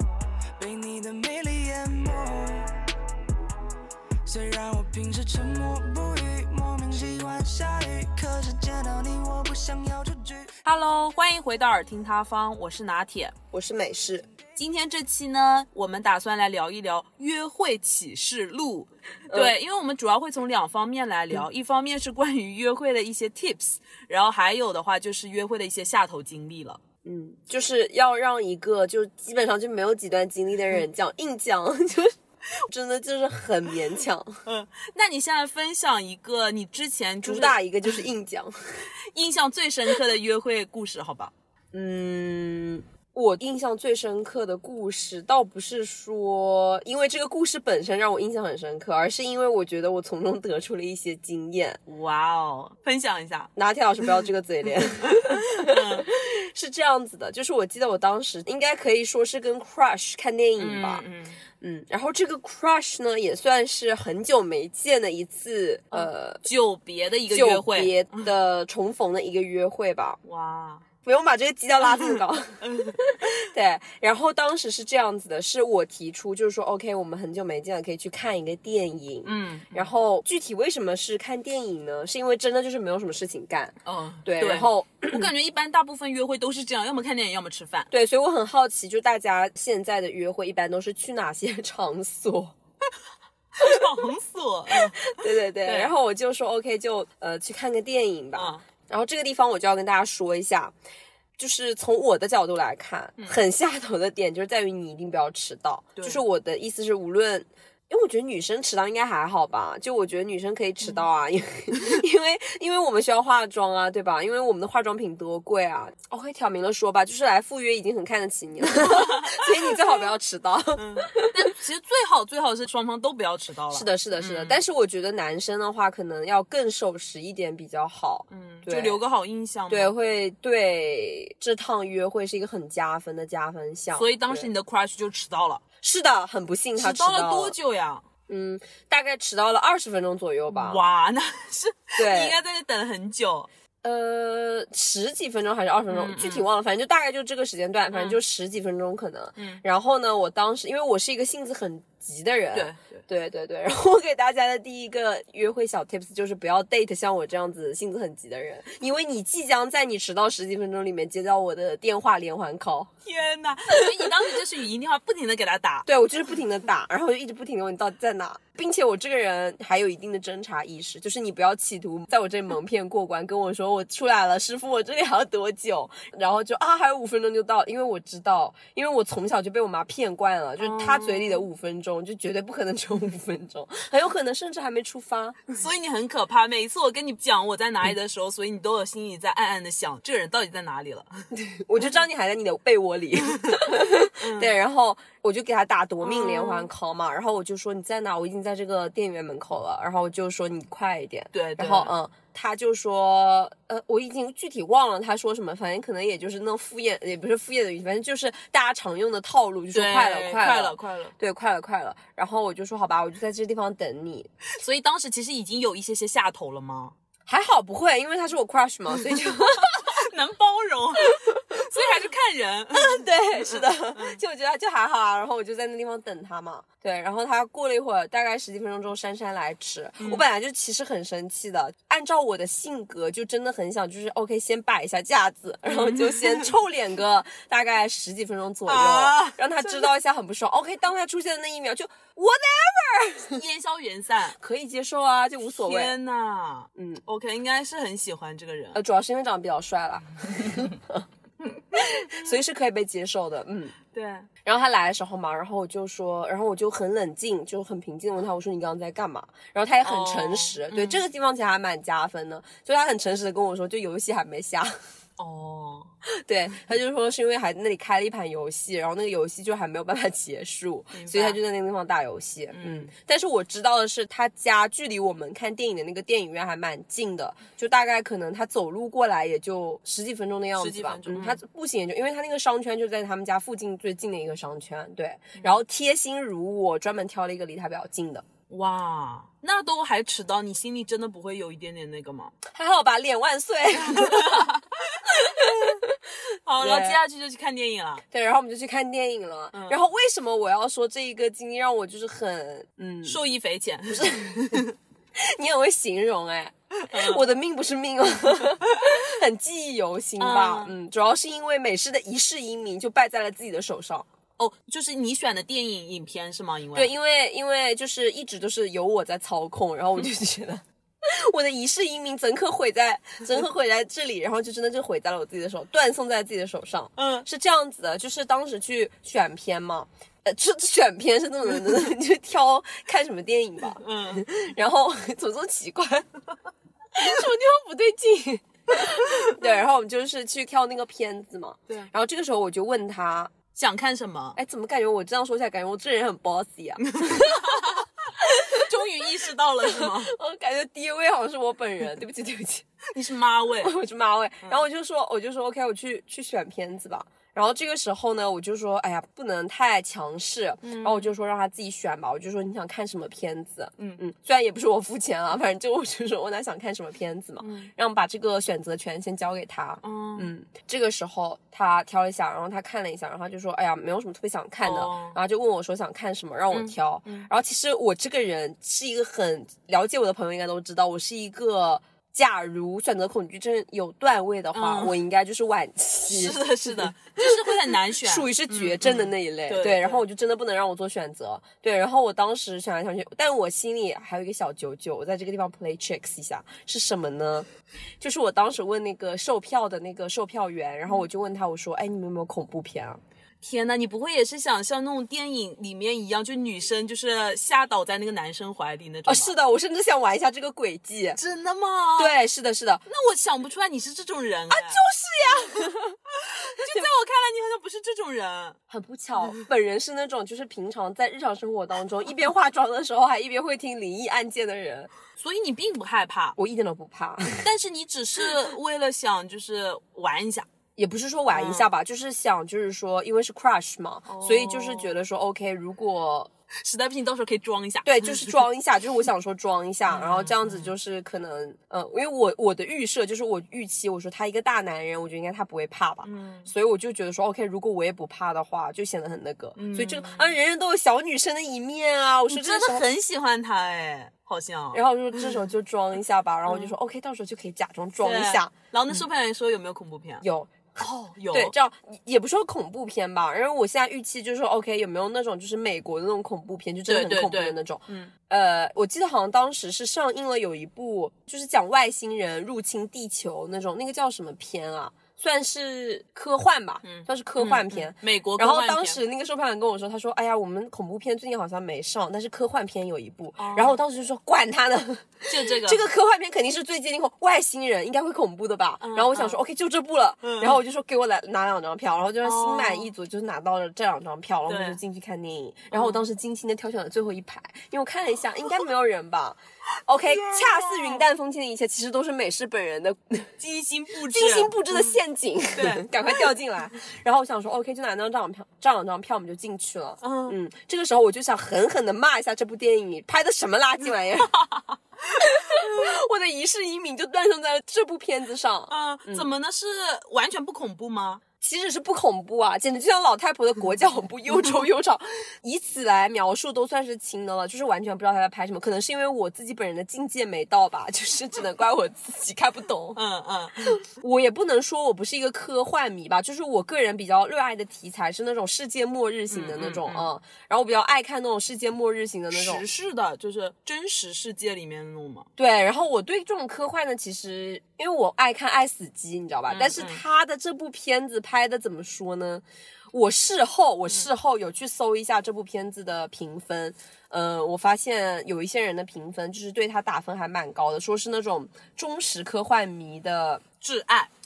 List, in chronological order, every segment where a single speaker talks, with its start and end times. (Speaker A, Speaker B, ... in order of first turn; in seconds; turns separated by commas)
Speaker A: 0.6-2.8, Speaker A: 4.2-10.5, Speaker B: 10.6-13.3, Speaker C: 13.5-14.3, Speaker B: 14.6-26.8, Speaker C: 19.3-19.6, Speaker C: 27.1-32.1, Speaker C: 32.7-34.4, Speaker B: 34.5-37.6, Speaker C: 37.2-38.8, Speaker B: 39.1-41.3, Speaker C: 41.7-51.8, Speaker B: 51.9-53.5, Speaker C: 53.5-61.0, Speaker B: 55.3-56.1, Speaker B: 60.6-61.4, Speaker C: 61.6-66.4, Speaker B: 65.9-68.3, Speaker C: 67.3-70.2, Speaker B: 70.2-70.8, Speaker C: 71.0-85.3, Speaker B: 72.6-73.0, Speaker B: 79.2-79.9, Speaker B: 83.8-87.9, Speaker C: 87.9-92.5, Speaker B: 93.6-95.9, Speaker C: 94.7-100.7, Speaker B: 98.3-98.6, Speaker C: 101.4-121.3, Speaker B: 106.0-106.2, Speaker B: 118.7-119.5, Speaker B: 120.7-124.6, Speaker C: 123.7-129.0, Speaker B: 128.3-129.9, Speaker C: 129.7-134.5, Speaker B: 133.9-135.6, Speaker C: 135.8-137.6, Speaker B: 136.8-138.1, Speaker C: 138.3-140.8, Speaker B: 140.5-143.5, Speaker C: 142.0-142.4, Speaker C: 143.8-162.9, Speaker B: 145.9-146.5, Speaker B: 147.9-148.2, Speaker B: 149.4-149.6, Speaker B: 152.5-153.1, Speaker B: 163.1-165.9, Speaker C: 165.9-185.5, Speaker B: 180.6-181.4, Speaker B: 185.5-191.3, Speaker C: 191.3-214.3, Speaker B: 193.3-194.5, Speaker B: 196.0-196.7, Speaker B: 201.3-201.9, Speaker B: 209.7-211.1, Speaker B: 214.6-216.9, Speaker C: 217.3-220.0, Speaker B: 219.6-224.2, Speaker C: 221.1-221.6, Speaker C: 222.7-243.4, Speaker B: 235.7-236.5, Speaker B: 238.7-239.9, Speaker B: 243.3-244.4, Speaker C: 244.4-246.0, Speaker B: 245.6-248.8, Speaker C: 246.8-247.0, Speaker C: 248.7-251.1, Speaker B: 251.4-252.3, Speaker C: 251.7-253.8, Speaker B: 253.9-254.3, Speaker C: 254.4-264.7, Speaker B: 259.8-261.0, Speaker B: 265.2-265.9, Speaker C: 266.1-288.2, Speaker B: 270.9-271.4, Speaker B: 272.5-272.9, Speaker B: 280.6-281.4, Speaker B: 288.5-292.3, Speaker C: 292.4-294.5, Speaker B: 293.9-295.8, Speaker C: 295.1-296.0, Speaker B: 296.4-298.0, Speaker C: 296.6-297.0, Speaker C: 298.1-303.2, Speaker B: 299.5-299.8, Speaker B: 303.1-304.7, Speaker C: 303.9-304.6, Speaker C: 305.2-314.1, Speaker B: 306.8-307.2, Speaker B: 310.2-310.7, Speaker B: 314.4-316.9, Speaker C: 316.8-336.1, Speaker B: 327.0-327.3, Speaker B: 333.8-334.3, Speaker C: 336.9-343.3, Speaker B: 339.0-339.4, Speaker B: 343.5-344.4, Speaker C: 344.4-348.6, Speaker B: 346.8-350.1, Speaker C: 349.7-352.7, Speaker B: 352.9-353.8, Speaker C: 353.6-397.5, Speaker B: 360.6-361.1, Speaker B: 367.4-367.7, Speaker B: 369.8-370.3, Speaker B: 374.6-375.2, Speaker B: 376.5-377.3, Speaker B: 384.5-384.9, Speaker B: 386.1-390.1, Speaker C: 398.0-403.0, Speaker B: 403.4-409.4, Speaker C: 409.1-411.2, Speaker B: 411.2-412.1, Speaker C: 412.0-412.9, Speaker B: 412.9-414.8, Speaker C: 414.5-416.0, Speaker B: 416.2-418.6, Speaker C: 416.6-416.9, Speaker C: 418.7-424.9, Speaker B: 425.1-426.4, Speaker C: 426.4-427.5, Speaker B: 427.4-430.5, Speaker C: 430.8-436.3, Speaker B: 431.3-431.7, Speaker B: 434.1-435.0, Speaker B: 436.6-438.4, Speaker C: 437.8-452.9, Speaker B: 439.9-440.7, Speaker B: 446.0-446.5, Speaker B: 449.6-450.3, Speaker B: 452.3-454.8, Speaker C: 454.7-458.5, Speaker B: 456.5-456.7, Speaker B: 458.0-460.2, Speaker C: 460.2-460.7, Speaker B: 460.8-461.5, Speaker C: 461.3-503.3, Speaker B: 466.9-468.1, Speaker B: 476.9-479.0, Speaker B: 483.4-483.8, Speaker B: 485.3-485.9, Speaker B: 488.8-489.4, Speaker B: 490.2-490.6, Speaker B: 492.2-492.9, Speaker B: 494.5-494.8, Speaker B: 495.7-496.1, Speaker B: 500.1-501.0, Speaker B: 503.4-504.9, Speaker C: 504.1-514.3, Speaker B: 505.6-506.2, Speaker B: 510.0-510.4, Speaker B: 514.2-514.8, Speaker C: 515.2-519.3, Speaker B: 515.5-515.8, Speaker B: 518.7-521.2, Speaker C: 521.4-533.0, Speaker B: 532.9-533.8, Speaker C: 533.8-542.6, Speaker B: 539.3-540.1, Speaker B: 542.3-545.3, Speaker C: 545.4-563.4, Speaker B: 549.5-550.0, Speaker B: 563.6-564.1